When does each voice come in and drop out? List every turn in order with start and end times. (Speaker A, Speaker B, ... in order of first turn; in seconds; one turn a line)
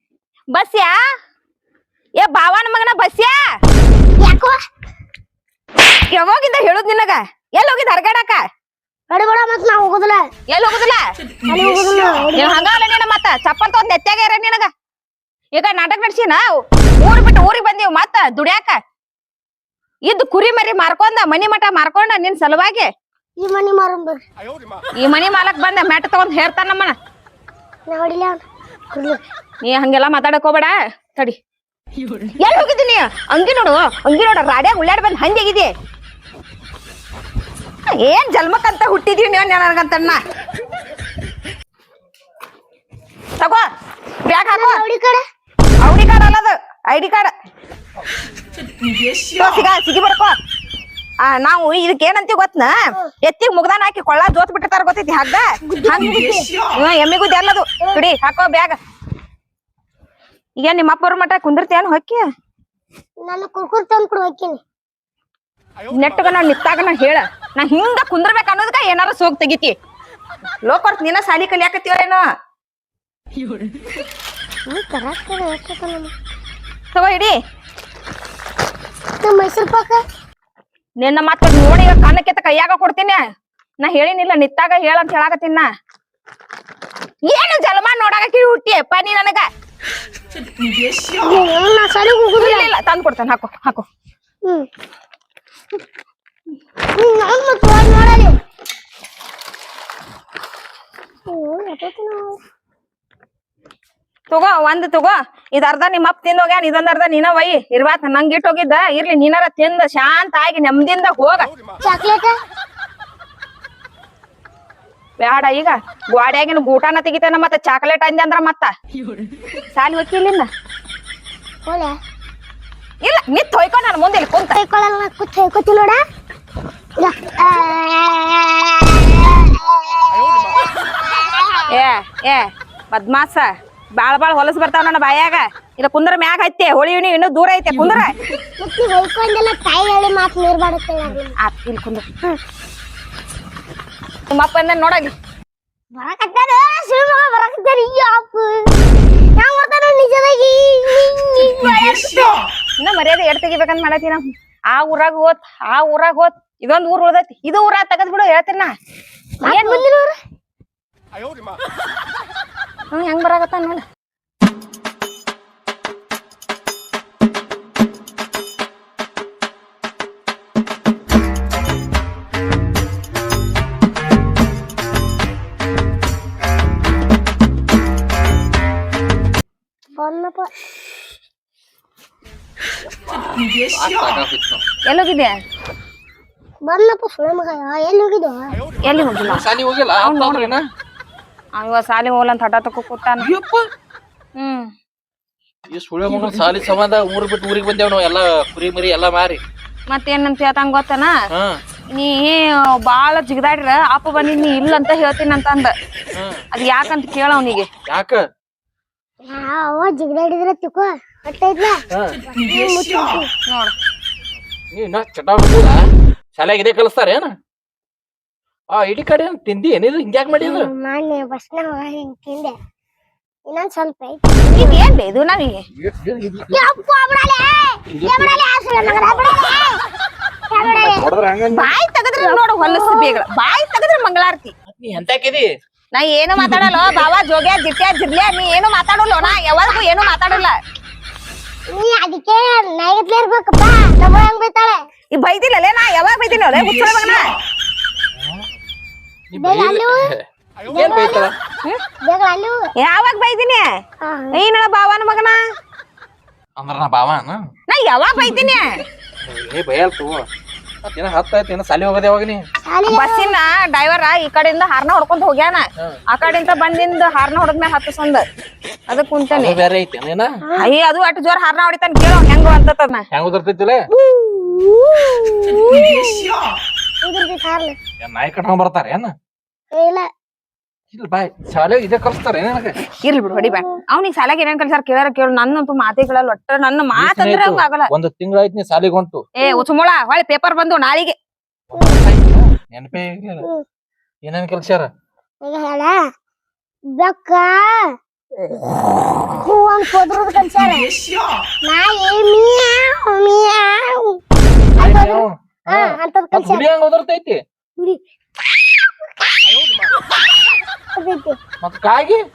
Speaker A: 0.5-0.9
Speaker A: 2.2-3.4
Speaker B: 4.2-4.6
Speaker A: 6.1-8.4
Speaker B: 9.1-10.2
Speaker A: 10.5-11.0
Speaker B: 11.5-12.7
Speaker A: 12.3-14.7
Speaker A: 15.5-18.8
Speaker A: 20.1-22.9
Speaker B: 23.4-24.2
Speaker A: 25.0-26.9
Speaker B: 27.9-29.2
Speaker A: 29.6-31.4
Speaker A: 32.4-35.7
Speaker A: 37.9-40.2
Speaker A: 43.4-43.7
Speaker A: 44.2-44.8
Speaker B: 44.5-45.2
Speaker A: 45.8-47.3
Speaker A: 49.3-50.4
Speaker A: 51.2-56.1
Speaker B: 55.6-56.5
Speaker A: 56.7-58.8
Speaker A: 60.6-62.2
Speaker B: 63.2-64.6
Speaker A: 65.9-69.7
Speaker A: 70.6-72.2
Speaker B: 74.7-76.1
Speaker A: 76.9-77.3
Speaker B: 79.2-80.0
Speaker A: 81.0-83.2
Speaker A: 83.8-85.7
Speaker A: 87.2-89.4
Speaker B: 91.2-92.7
Speaker A: 92.4-93.8
Speaker B: 96.9-98.3
Speaker B: 101.3-102.4
Speaker A: 104.3-111.5
Speaker B: 111.8-112.3
Speaker A: 115.2-118.7
Speaker A: 119.7-120.5
Speaker B: 121.7-121.9
Speaker A: 123.0-124.5
Speaker B: 124.5-126.0
Speaker B: 127.0-131.7
Speaker A: 131.7-138.2
Speaker B: 138.6-141.3
Speaker A: 141.4-142.0
Speaker A: 144.3-145.1
Speaker B: 145.9-148.8
Speaker B: 149.4-152.4
Speaker A: 152.8-158.7
Speaker B: 159.4-160.1
Speaker A: 159.4-159.8
Speaker A: 162.9-163.8
Speaker B: 179.9-180.5
Speaker C: 183.5-184.6
Speaker A: 184.8-185.3
Speaker B: 186.6-188.6
Speaker A: 188.8-189.4
Speaker C: 189.2-190.6
Speaker A: 190.0-190.5
Speaker A: 191.6-193.3
Speaker C: 193.2-193.6
Speaker A: 194.4-194.7
Speaker C: 195.7-199.4
Speaker A: 199.9-201.1
Speaker C: 201.3-201.6
Speaker A: 201.9-205.7
Speaker C: 206.1-206.4
Speaker A: 206.5-207.7
Speaker C: 207.9-208.2
Speaker B: 209.3-213.3
Speaker A: 213.5-213.7
Speaker C: 214.7-215.8
Speaker C: 216.3-217.3
Speaker C: 218.7-220.7
Speaker B: 220.3-222.5
Speaker B: 223.5-224.8
Speaker A: 224.6-225.6
Speaker C: 225.8-226.6
Speaker B: 226.5-229.8
Speaker C: 227.9-229.1
Speaker B: 230.5-231.1
Speaker C: 230.6-231.7
Speaker A: 231.5-234.5
Speaker B: 232.2-233.2
Speaker C: 234.7-235.5
Speaker A: 235.9-240.6
Speaker B: 239.2-239.8
Speaker B: 241.7-244.8
Speaker A: 245.1-247.2
Speaker C: 248.2-248.4
Speaker C: 249.3-251.3
Speaker B: 249.4-250.1
Speaker B: 250.7-251.3
Speaker B: 252.0-252.6
Speaker A: 252.8-253.6
Speaker B: 254.0-254.4
Speaker A: 254.3-255.4
Speaker C: 256.6-257.4
Speaker A: 257.7-258.7
Speaker C: 259.2-260.2
Speaker C: 260.8-262.4
Speaker B: 262.6-263.3
Speaker A: 262.9-268.2
Speaker A: 268.9-269.6
Speaker C: 269.3-270.4
Speaker B: 270.4-270.7
Speaker A: 270.6-273.1
Speaker C: 273.1-273.9
Speaker B: 273.9-276.4
Speaker B: 277.0-277.8
Speaker C: 278.0-279.1
Speaker B: 279.7-280.1
Speaker C: 280.9-282.8
Speaker A: 283.0-287.9
Speaker B: 283.3-283.8
Speaker C: 286.9-289.2
Speaker A: 289.4-291.1
Speaker C: 291.7-293.4
Speaker C: 294.2-294.9
Speaker B: 295.4-295.9
Speaker B: 297.0-297.9
Speaker B: 299.4-300.9
Speaker B: 301.6-304.2
Speaker B: 304.8-306.6
Speaker C: 304.8-307.4
Speaker B: 310.9-311.4
Speaker C: 311.6-312.2